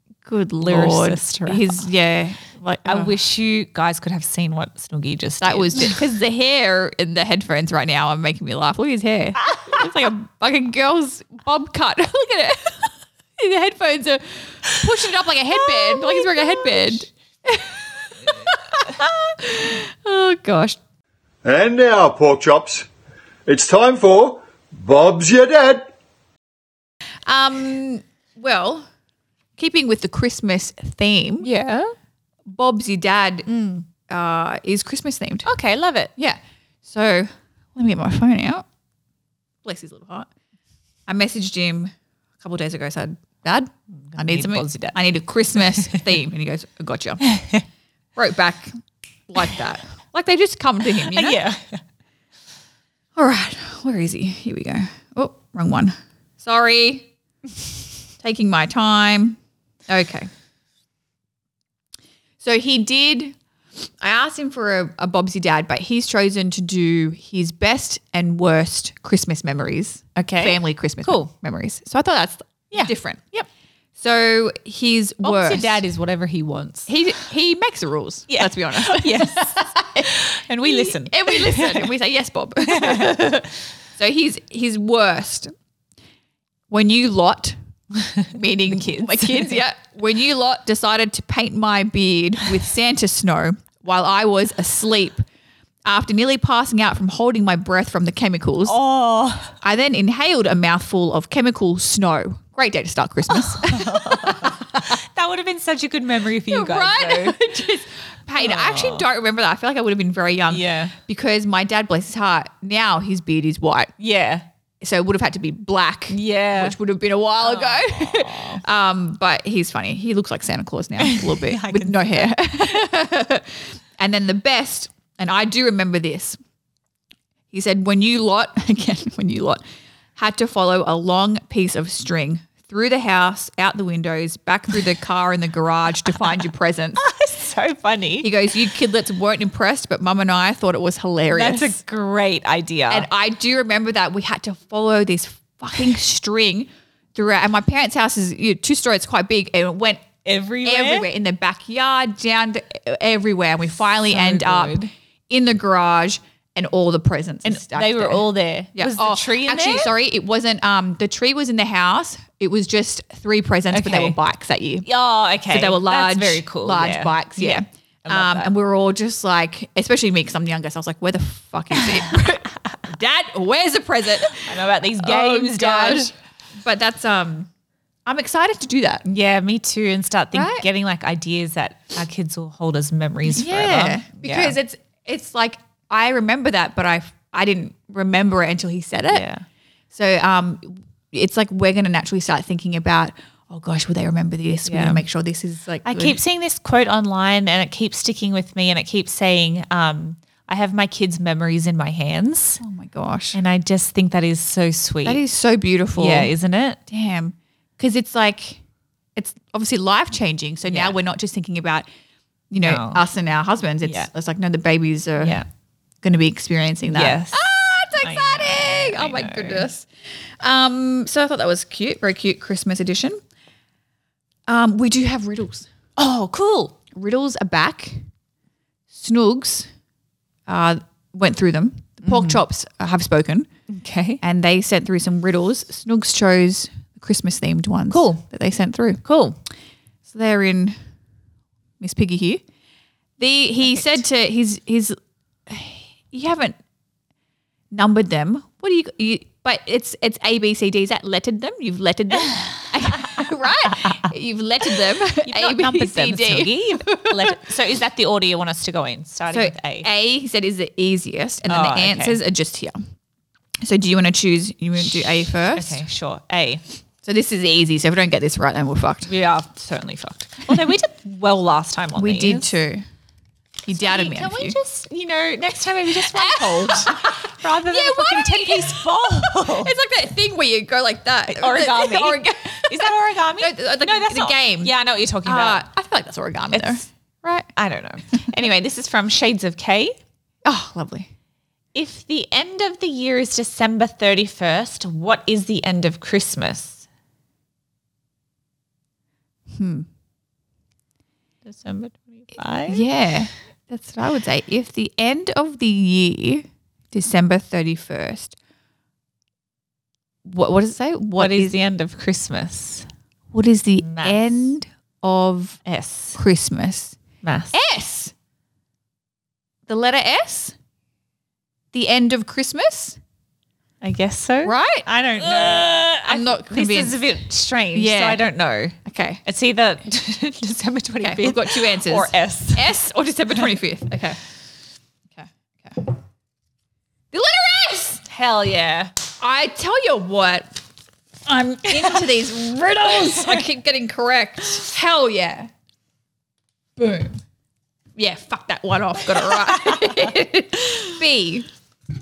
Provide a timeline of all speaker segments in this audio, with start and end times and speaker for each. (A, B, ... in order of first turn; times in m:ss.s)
0:00.2-0:03.2 A
0:00.6-0:01.8 B
0:02.8-0:06.0 B
0:05.4-0:20.8 A
0:15.7-0:17.0 B
0:21.4-0:22.9 C
0:23.4-0:25.9 C
0:27.3-0:28.8 A
0:29.6-0:31.5 A
0:31.4-0:31.9 B
0:32.5-0:33.5 A
0:33.5-0:33.8 B
0:34.1-0:35.5 A
0:35.4-0:36.1 B
0:36.2-0:38.6 A
0:39.6-0:40.3 A
0:41.1-0:47.2 A
0:44.1-0:45.0 B
0:45.6-0:46.0 B
0:47.2-0:47.6 B
0:48.2-0:48.8 A
0:49.3-0:51.4 A
0:51.0-0:51.8 B
0:53.2-0:57.1 A
0:58.2-1:00.3 A
1:02.4-1:13.2 A
1:10.2-1:11.3 B
1:12.7-1:13.5 B
1:14.0-1:15.8 A
1:15.2-1:16.9 B
1:16.9-1:25.5 A
1:18.3-1:21.9 B
1:22.6-1:23.5 B
1:26.7-1:27.6 A
1:28.2-1:29.6 B
1:28.3-1:35.2 A
1:35.8-1:38.8 A
1:38.6-1:39.6 B
1:39.6-1:44.9 A
1:43.3-1:47.4 B
1:46.5-1:53.9 A
1:48.4-1:49.1 B
1:50.5-1:50.9 B
1:54.0-1:54.4 B
1:54.8-2:06.4 A
1:56.1-1:56.8 B
1:57.4-1:58.6 B
2:01.0-2:02.8 B
2:07.5-2:09.6 A
2:10.2-2:17.0 A
2:17.0-2:18.3 B
2:18.2-2:21.8 A
2:21.3-2:23.1 B
2:22.9-2:30.1 A
2:30.2-2:31.1 B
2:30.6-2:44.9 A
2:33.9-2:34.9 B
2:37.4-2:39.9 B
2:43.7-2:44.2 B
2:44.8-2:48.5 B
2:45.5-2:57.5 A
2:51.7-2:52.1 B
2:54.4-2:56.1 B
2:58.0-2:59.1 A
2:59.0-3:04.6 B
3:00.3-3:00.7 A
3:03.3-3:09.2 A
3:09.1-3:09.4 B
3:09.9-3:16.2 A
3:14.6-3:15.0 B
3:15.8-3:22.6 B
3:22.6-3:23.4 A
3:23.3-3:25.2 B
3:25.0-3:26.3 A
3:25.9-3:26.8 B
3:26.9-3:28.6 A
3:29.2-3:31.9 A
3:30.7-3:31.0 B
3:32.5-3:35.4 A
3:32.6-3:33.0 B
3:33.8-3:34.1 B
3:35.2-3:35.4 B
3:36.0-3:39.9 A
3:36.9-3:37.4 B
3:38.0-3:39.7 B
3:40.4-3:43.2 A
3:44.5-3:45.7 A
3:46.0-3:46.8 B
3:46.9-3:48.0 A
3:48.9-3:49.7 A
3:50.5-3:53.5 A
3:52.0-3:52.4 B
3:53.7-3:54.2 B
3:54.2-3:59.0 A
3:57.9-3:58.2 B
3:59.0-3:59.4 B
4:00.0-4:00.8 A
4:01.8-4:02.4 A
4:03.2-4:06.6 A
4:03.6-4:04.0 B
4:07.7-4:17.4 A
4:15.2-4:19.9 B
4:19.3-4:22.8 A
4:21.5-4:22.2 B
4:23.6-4:25.8 A
4:25.5-4:26.6 B
4:27.0-4:29.1 A
4:29.1-4:32.5 B
4:32.0-4:32.8 A
4:33.6-4:34.6 A
4:33.7-4:39.7 B
4:36.0-4:44.7 A
4:41.3-4:45.6 B
4:45.2-4:47.5 A
4:46.5-4:46.8 B
4:47.5-4:50.0 B
4:50.4-4:51.1 A
4:51.7-4:56.8 B
4:59.5-4:59.9 A
5:01.4-5:02.8 B
5:02.7-5:08.4 A
5:10.2-5:11.5 A
5:11.2-5:12.9 B
5:13.3-5:15.6 A
5:13.8-5:14.5 B
5:15.6-5:16.2 B
5:16.1-5:17.0 A
5:17.2-5:17.6 B
5:17.5-5:18.1 A
5:19.7-5:20.5 A
5:21.7-5:23.0 A
5:23.8-5:32.7 B
5:24.4-5:27.1 A
5:27.7-5:28.2 A
5:28.8-5:29.2 A
5:31.0-5:34.2 A
5:35.2-5:35.9 A
5:37.1-5:38.1 A
5:38.1-5:39.0 B
5:39.2-5:40.6 A
5:41.2-5:45.5 A
5:41.8-5:42.0 B
5:42.9-5:43.4 B
5:46.8-5:47.2 A
5:48.0-5:51.5 A
5:49.3-5:50.1 B